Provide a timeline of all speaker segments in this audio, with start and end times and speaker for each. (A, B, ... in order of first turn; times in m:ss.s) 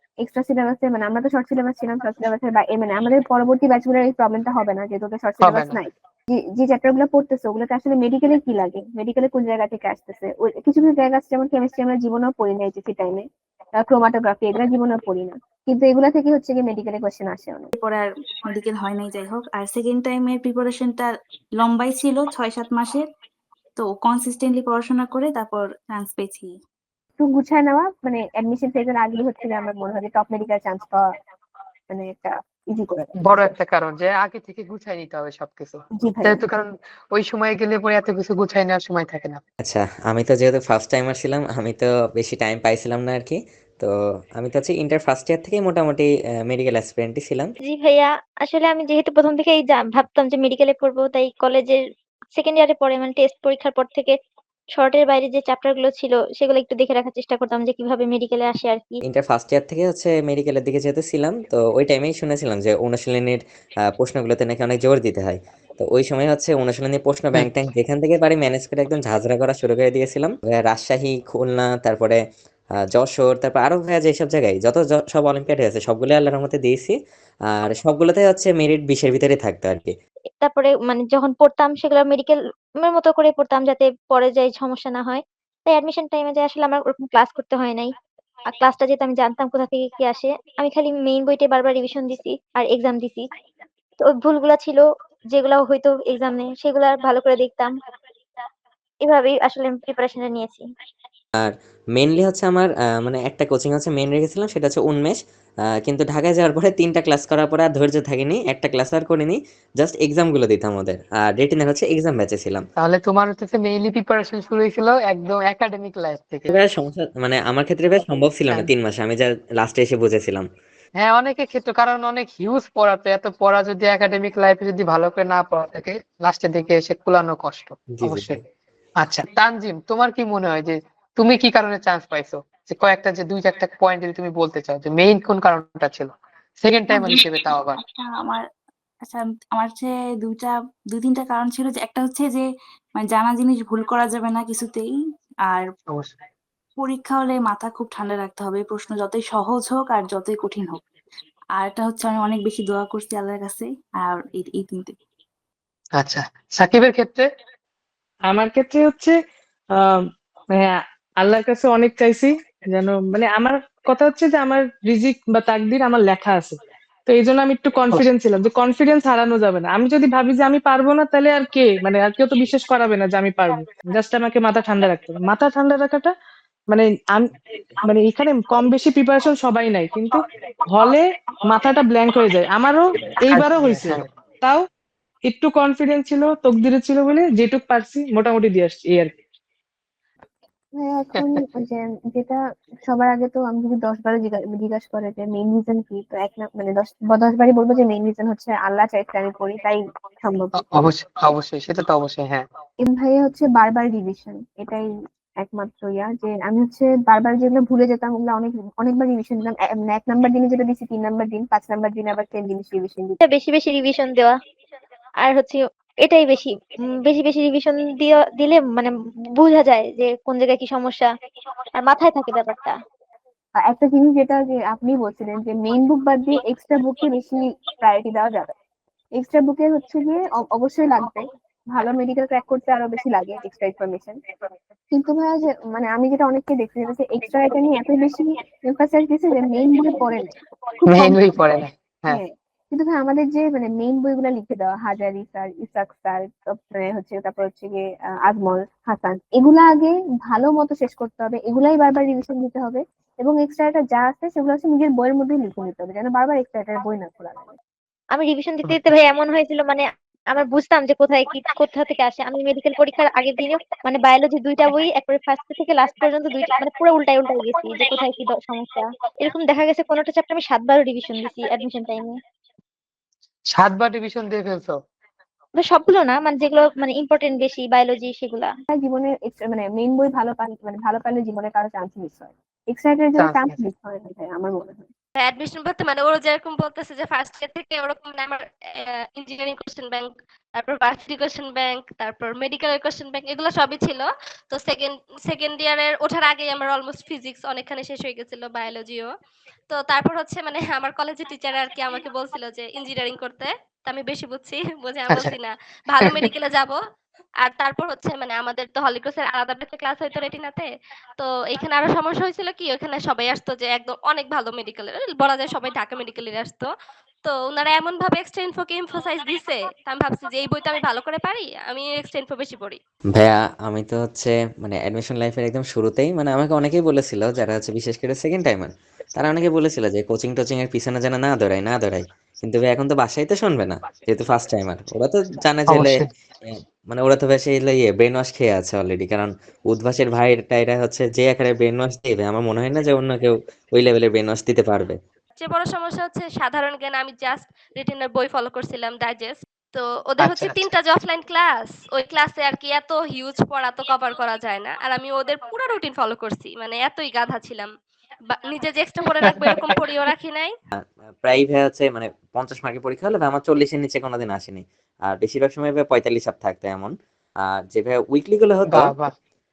0:00.2-0:13.2 A
0:05.4-0:05.8 B
0:13.8-0:17.7 A
0:17.7-0:23.0 C
0:23.8-0:26.5 C
0:27.2-0:31.1 A
0:31.9-0:33.5 A
0:33.2-0:39.4 B
0:36.0-0:36.4 A
0:39.6-0:47.5 D
0:47.6-0:51.8 E
0:52.4-0:54.1 E
0:54.7-0:59.0 E
0:59.0-1:03.4 D
1:03.9-1:12.2 D
1:12.9-1:17.0 D
1:17.5-1:19.9 D
1:20.4-1:27.9 E
1:28.5-1:33.2 E
1:34.0-1:37.7 E
1:39.0-1:40.6 E
1:41.4-1:45.2 D
1:45.8-1:52.6 D
1:52.8-1:56.5 B
1:56.5-2:00.5 D
2:01.0-2:08.4 B
2:07.9-2:08.4 D
2:09.0-2:17.8 B
2:16.9-2:17.2 C
2:17.8-2:18.4 C
2:19.0-2:22.4 C
2:23.0-2:24.9 C
2:25.9-2:26.2 B
2:26.8-2:30.8 C
2:31.6-2:34.9 C
2:36.0-2:37.3 B
2:38.3-2:39.1 F
2:39.8-2:56.1 F
2:56.7-2:57.3 F
2:57.8-3:04.6 F
3:03.3-3:04.0 B
3:05.3-3:09.1 F
3:10.7-3:20.8 A
3:20.6-3:22.4 B
3:22.8-3:24.9 A
3:25.4-3:33.2 A
3:33.2-3:34.4 E
3:35.2-3:41.1 E
3:41.8-3:42.8 E
3:43.6-3:48.5 A
3:49.2-3:54.2 A
3:54.9-4:00.4 A
4:00.9-4:02.2 B
4:00.9-4:01.2 A
4:02.1-4:17.6 A
4:18.1-4:32.2 E
4:33.5-4:34.8 B
4:35.6-4:38.5 E
4:38.7-4:44.9 A
4:43.2-4:43.6 B
4:45.2-4:59.1 G
4:59.7-5:06.8 G
5:05.1-5:05.3 B
5:06.0-5:06.3 B
5:07.4-5:16.7 G
5:17.2-5:22.8 G
5:23.1-5:45.0 D
5:35.7-5:36.1 B
5:45.4-5:57.7 G
5:50.2-5:50.7 B
5:58.3-6:00.5 G
5:59.2-5:59.8 B
6:00.8-6:08.9 D
6:08.7-6:09.1 B